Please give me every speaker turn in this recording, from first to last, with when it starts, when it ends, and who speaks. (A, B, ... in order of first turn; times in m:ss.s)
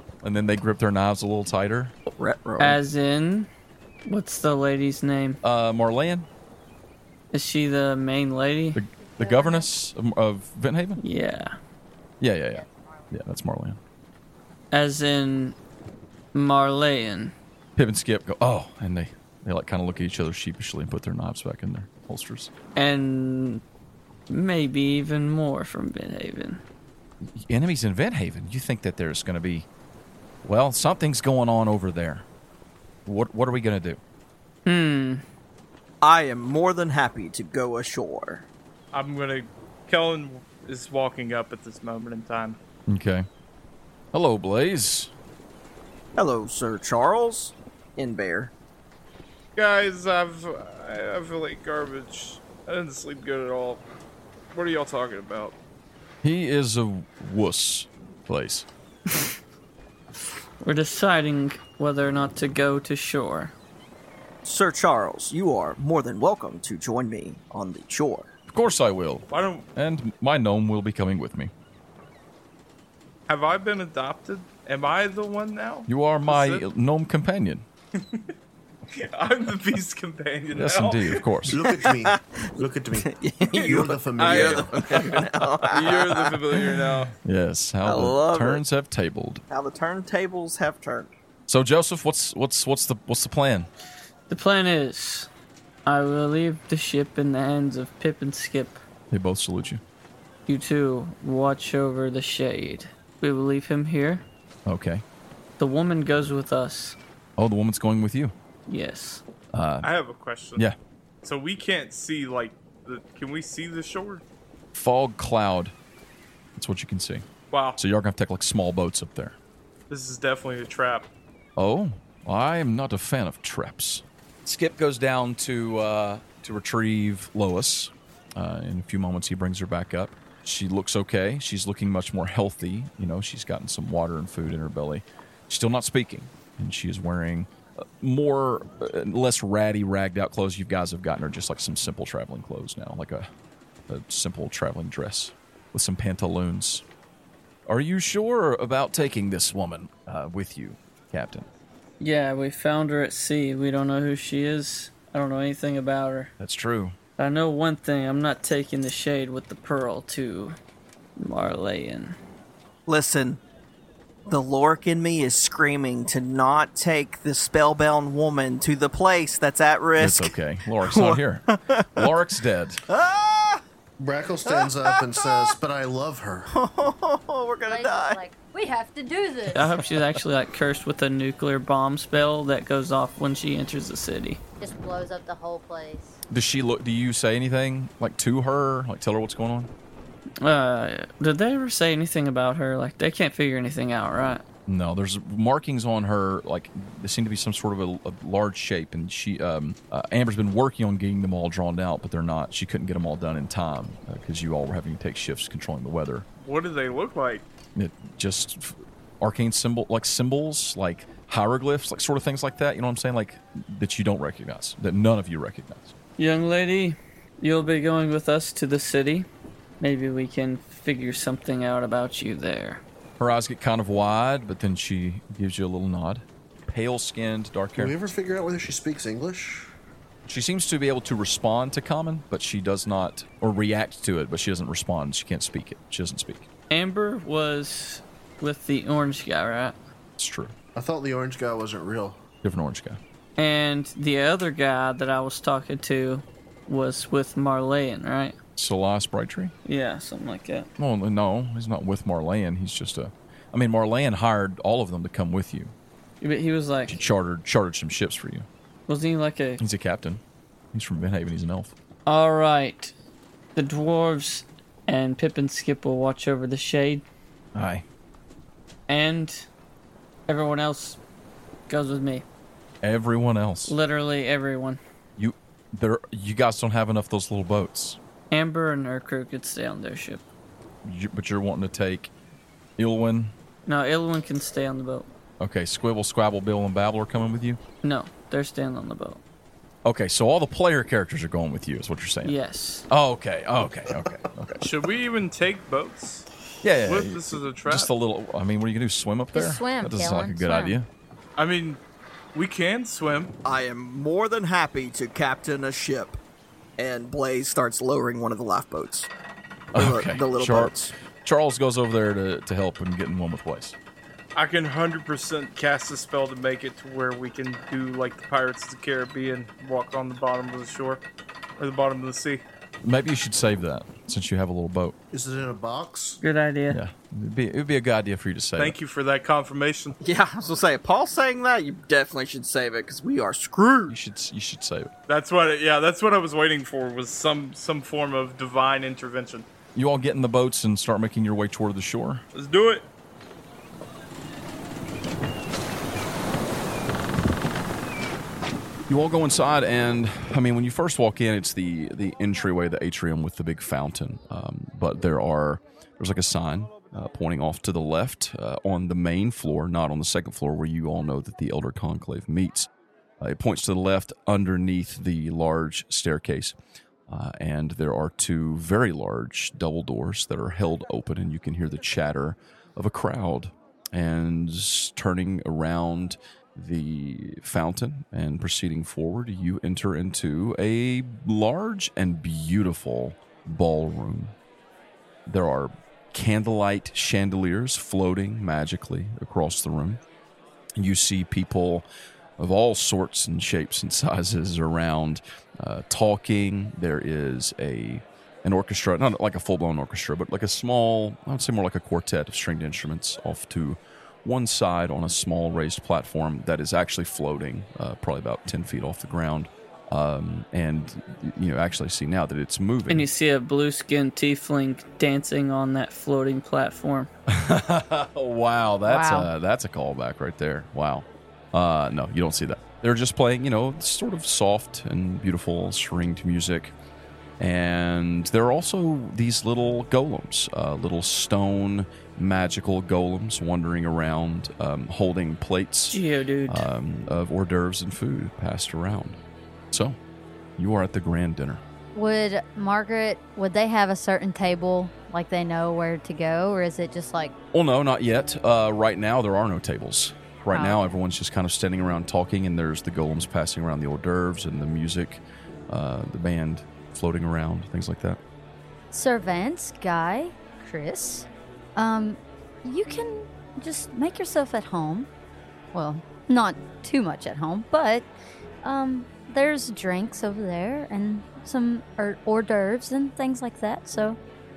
0:00.2-0:01.9 A
0:02.1-0:02.8 B
0:02.6-0:03.5 C
0:04.0-0:05.4 C
0:05.4-0:06.3 A
0:07.3-0:08.8 C
0:08.7-0:11.0 A
0:09.2-0:09.7 D
0:11.0-0:11.6 C
0:12.2-0:13.8 A
0:12.5-0:13.1 D
0:14.7-0:15.6 C
0:16.3-0:17.3 C
0:17.8-0:22.5 A
0:22.8-0:23.6 C
0:24.3-0:26.6 C
0:27.2-0:29.7 A
0:30.4-0:32.2 A
0:33.0-0:34.0 A
0:34.6-0:35.2 C
0:36.0-0:38.5 B
0:38.9-0:42.6 E
0:42.9-0:43.3 A
0:44.1-0:45.1 A
0:46.2-0:48.5 B
0:49.6-0:53.8 E
0:54.5-0:55.5 E
0:56.2-0:58.7 A
1:00.6-1:03.5 C
1:04.4-1:08.3 B
1:08.5-1:11.5 A
1:09.3-1:09.7 E
1:13.3-1:16.6 E
1:15.9-1:17.6 A
1:18.9-1:21.3 E
1:20.5-1:21.6 A
1:21.5-1:24.8 F
1:21.6-1:26.4 B
1:23.7-1:27.1 E
1:27.1-1:29.4 A
1:27.8-1:28.6 B
1:29.5-1:31.1 B
1:31.5-1:33.7 A
1:34.3-1:35.3 C
1:35.8-1:38.8 C
1:39.1-1:39.8 A
1:40.5-1:44.2 C
1:44.6-1:45.0 A
1:45.6-1:47.0 C
1:47.4-1:48.3 A
1:48.7-1:49.2 C
1:49.5-1:49.9 A
1:49.8-1:50.7 E
1:51.2-1:54.2 E
1:54.7-1:55.7 A
1:56.5-1:57.2 A
1:57.5-1:57.8 E
1:57.8-1:59.4 A
1:59.9-2:01.1 E
2:01.6-2:23.3 A
2:23.9-2:26.8 A
2:27.6-2:31.5 A
2:32.0-2:36.3 C
2:36.4-2:37.0 A
2:37.2-2:40.6 C
2:41.2-2:42.2 C
2:42.9-2:43.4 B
2:44.2-2:52.2 B
2:50.0-2:52.8 A
2:52.9-2:53.6 B
2:54.0-2:56.5 F
2:54.4-2:55.6 B
2:56.5-2:58.2 B
2:57.6-2:59.7 D
2:59.5-3:04.4 C
3:04.6-3:06.2 D
3:06.3-3:09.7 A
3:10.4-3:14.4 C
3:14.7-3:26.2 A
3:26.4-3:27.4 E
3:27.8-3:35.9 A
3:36.2-3:39.3 C
3:39.8-3:42.8 C
3:43.2-3:47.9 A
3:47.8-3:49.7 F
3:50.2-3:56.5 A
3:56.7-3:59.8 C
4:00.2-4:00.5 A
4:00.7-4:02.2 F
4:02.4-4:03.0 A
4:03.4-4:08.4 C
4:08.6-4:09.5 A
4:09.6-4:10.7 C
4:10.8-4:15.7 A
4:16.2-4:17.0 C
4:16.9-4:18.5 A
4:18.9-4:19.6 C
4:19.6-4:20.2 A
4:20.7-4:21.7 A
4:22.0-4:22.9 C
4:23.6-4:27.0 C
4:27.5-4:27.8 A
4:28.9-4:29.5 C
4:30.3-4:31.0 C
4:31.7-4:32.2 C
4:32.8-4:33.7 A
4:33.7-4:34.8 C
4:35.2-4:38.0 A
4:38.3-4:40.2 C
4:40.8-4:42.1 A
4:42.8-4:43.3 A
4:43.6-4:45.1 C
4:45.4-4:47.6 A
4:47.8-4:49.2 C
4:49.8-4:52.3 A
4:52.2-4:52.9 C
4:52.9-4:54.7 A
4:54.6-4:56.2 E
4:56.6-5:00.9 A
4:56.8-4:57.9 E
4:59.3-5:00.8 D
5:01.4-5:01.8 E
5:02.3-5:03.4 E
5:03.4-5:06.2 B
5:06.8-5:09.1 B
5:09.7-5:10.9 B
5:09.7-5:13.8 A
5:14.3-5:21.0 E
5:21.6-5:22.4 E
5:22.8-5:25.0 A
5:25.1-5:26.2 F
5:26.2-5:26.8 C
5:26.7-5:28.8 A
5:28.6-5:30.0 E
5:30.0-5:34.0 B
5:33.9-5:34.9 A
5:35.1-5:39.4 E
5:39.7-5:42.2 A
5:42.3-5:42.8 E
5:48.9-6:06.6 A
6:07.1-6:24.3 A
6:25.2-6:30.0 A
6:30.8-6:31.8 A
6:32.4-6:53.1 A
6:52.9-6:57.1 C
6:57.3-7:06.7 A
6:58.8-6:59.3 D
7:07.4-7:19.2 A
7:15.9-7:16.7 C
7:19.7-7:20.0 A
7:20.6-7:21.6 A
7:21.9-7:27.3 D
7:27.5-7:38.2 A
7:30.5-7:30.9 D
7:38.9-7:45.1 D
7:45.7-7:48.1 D
7:48.6-7:54.2 D